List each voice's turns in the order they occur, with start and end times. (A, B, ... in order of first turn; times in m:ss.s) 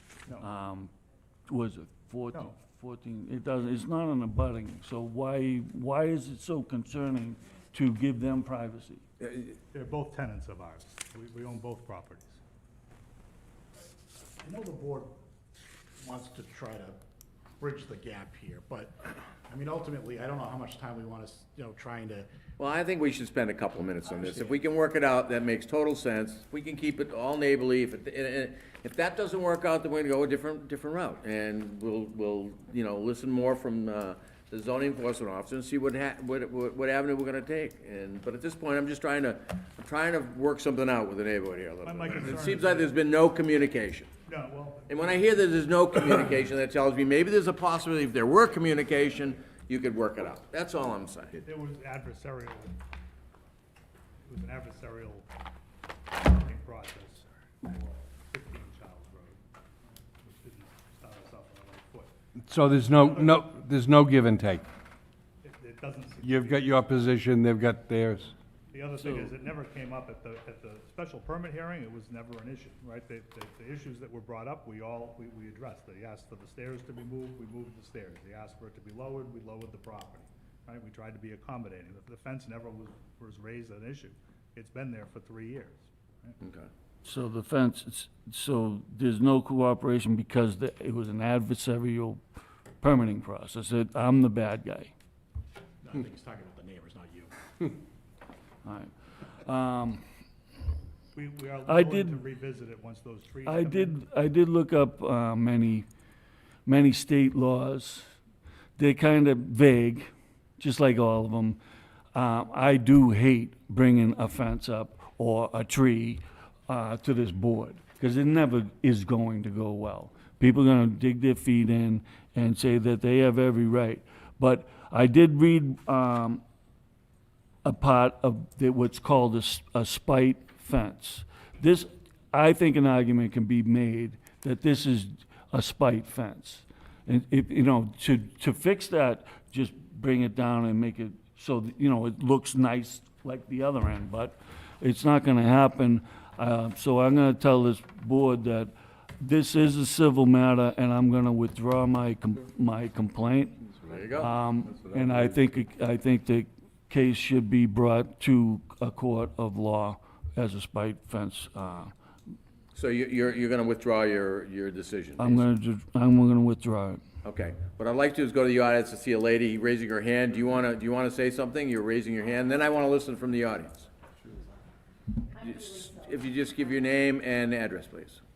0:00.4-0:00.9 A
0:01.5-0:09.0 A
0:02.3-0:02.6 B
0:09.7-0:12.4 B
0:14.4-0:15.1 C
0:16.0-0:17.0 C
0:17.6-0:22.3 C
0:22.6-0:44.1 D
0:24.3-0:24.5 C
0:41.8-0:43.0 B
0:44.3-0:45.2 B
0:44.9-0:51.4 D
0:51.4-0:52.8 B
0:54.3-0:55.3 B
0:56.2-0:59.4 B
1:00.2-1:02.1 B
1:02.4-1:04.7 E
1:02.9-1:03.5 B
1:05.4-1:07.0 B
1:06.2-1:08.3 E
1:08.7-1:26.4 B
1:09.0-1:09.3 A
1:26.4-1:26.7 D
1:27.0-1:32.2 A
1:32.8-1:34.9 A
1:35.8-1:37.3 C
1:38.6-1:40.0 A
1:41.1-1:44.0 B
1:41.7-1:42.2 A
1:43.4-1:45.9 A
1:46.7-1:48.1 A
1:48.8-1:51.6 A
1:52.1-2:06.4 A
2:07.6-2:33.6 A
2:33.8-2:34.3 D
2:34.2-2:41.9 A
2:42.7-2:45.4 D
2:45.2-2:47.0 A
2:47.2-2:53.9 D
2:55.3-2:58.2 D